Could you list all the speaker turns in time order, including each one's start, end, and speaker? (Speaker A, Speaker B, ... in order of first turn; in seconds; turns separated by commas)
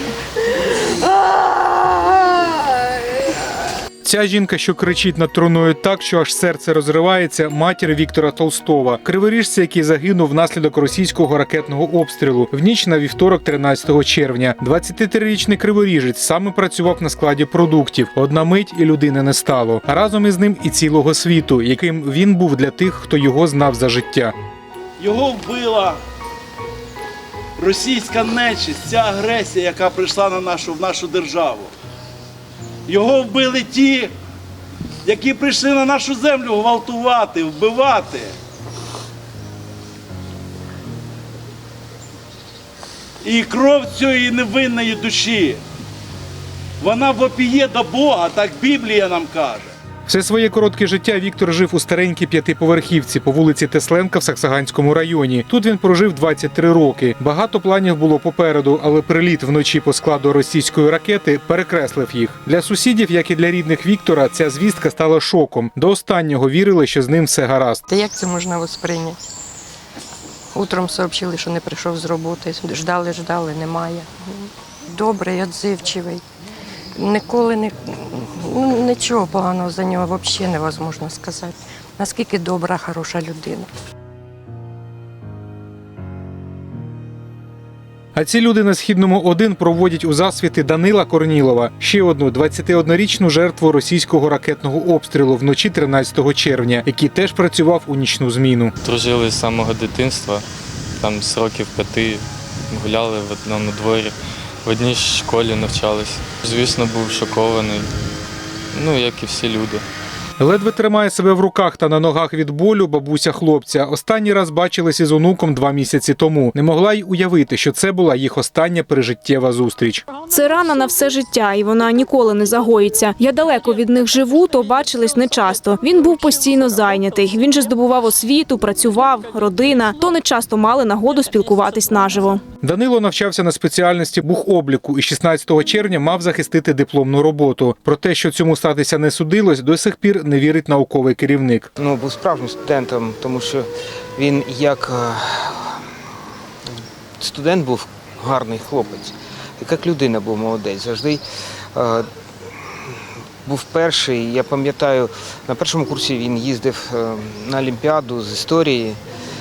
Speaker A: 4.0-24.3, Speaker B: 25.0-26.0, Speaker B: 27.6-31.7, Speaker B: 32.9-34.1, Speaker B: 35.0-38.3, Speaker B: 43.2-45.6, Speaker B: 46.8-49.7, Speaker A: 50.1-67.8, Speaker C: 67.9-69.2, Speaker C: 70.5-76.2, Speaker C: 77.0-83.7, Speaker A: 88.1-98.7, Speaker D: 98.8-100.4, Speaker D: 101.0-107.9, Speaker D: 108.7-109.8, Speaker A: 110.4-120.1, Speaker E: 120.2-132.4, Speaker A: 132.6-141.7, Speaker F: 141.8-145.8, Speaker F: 147.2-151.2, Speaker F: 151.7-152.1, Speaker F: 153.4-159.0